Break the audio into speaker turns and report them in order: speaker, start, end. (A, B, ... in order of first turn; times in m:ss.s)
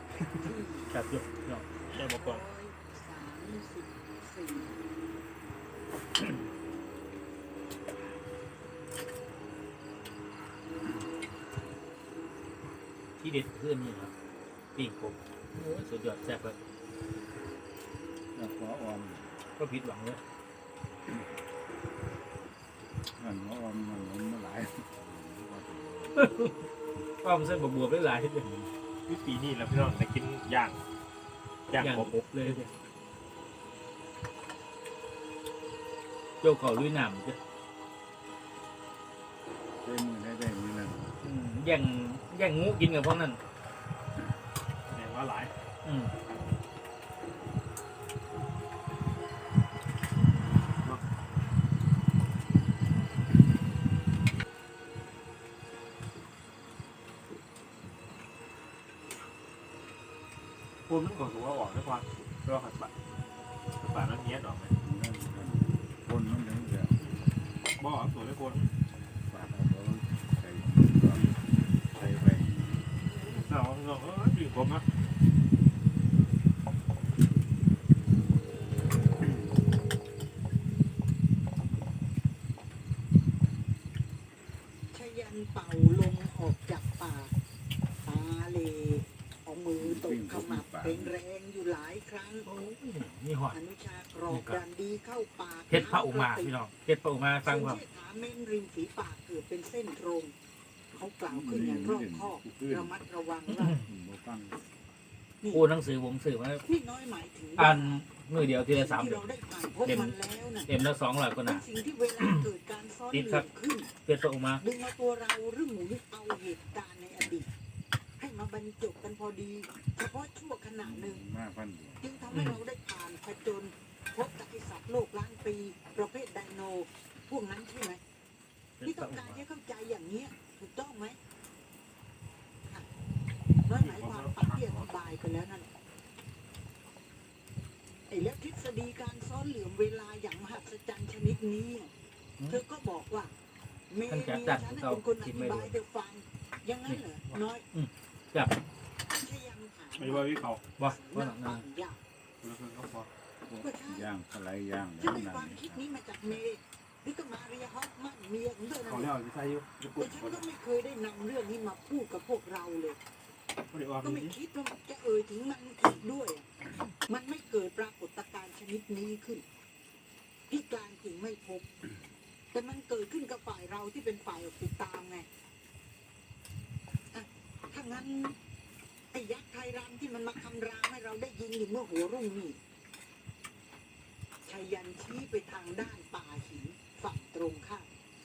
0:00.3-0:00.9 A
0:00.9-0:01.9 B
0:01.9-0:02.4 C
0:02.0-0:04.8 A
0:13.2-0:14.1 B
0:14.8-0:16.6 B
0:18.3-0:19.3 D
0:19.6-0:20.2 B
0:23.2-0:26.2 D
0:26.2-0:26.6 B
0:27.2-0:28.5 B
0:29.1-0:30.8 C
0:31.7-0:32.7 C
0:31.8-0:32.7 B
0:36.4-0:37.4 B
0:39.8-0:41.2 D
0:41.2-0:43.4 B
0:44.9-0:45.5 C
0:45.8-0:46.1 B
1:00.9-1:02.9 C
1:03.7-1:04.7 C
1:04.8-1:07.0 D
1:07.8-1:08.7 C
1:09.3-1:11.3 D
1:11.9-1:12.8 D
1:13.2-1:14.9 C
1:24.9-1:27.3 A
1:28.0-1:32.5 A
1:29.8-1:31.1 D
1:32.4-1:33.6 B
1:33.5-1:36.6 A
1:34.3-1:34.6 B
1:35.7-1:37.8 B
1:37.5-1:40.3 A
1:40.9-1:43.8 A
1:41.3-1:43.0 D
1:43.6-1:43.8 B
1:43.8-1:44.6 D
1:45.5-1:46.6 B
1:46.6-1:48.0 A
1:47.6-1:49.2 B
1:48.7-1:50.7 A
1:49.8-1:51.6 B
1:51.4-1:53.9 A
1:53.1-1:53.5 B
1:54.1-1:54.6 B
1:54.6-1:57.5 A
1:58.2-2:01.2 A
2:00.8-2:02.0 D
2:02.0-2:08.0 A
2:02.3-2:02.6 B
2:08.8-2:09.4 B
2:08.8-2:11.2 A
2:13.7-2:15.7 A
2:13.7-2:14.9 C
2:18.1-2:21.9 A
2:22.5-2:23.3 A
2:23.9-2:27.7 A
2:24.1-2:25.7 B
2:27.7-2:28.5 B
2:29.2-2:32.0 A
2:30.0-2:30.6 C
2:30.8-2:31.6 B
2:32.4-2:33.1 C
2:33.5-2:36.4 D
2:33.6-2:34.1 A
2:35.0-2:39.1 A
2:38.8-2:40.4 C
2:40.0-2:43.0 A
2:43.7-2:44.4 C
2:44.0-2:49.4 A
2:50.5-2:51.7 A
2:52.5-2:55.3 A
2:57.1-2:58.4 A
2:59.1-3:02.6 A
3:04.5-3:07.9 A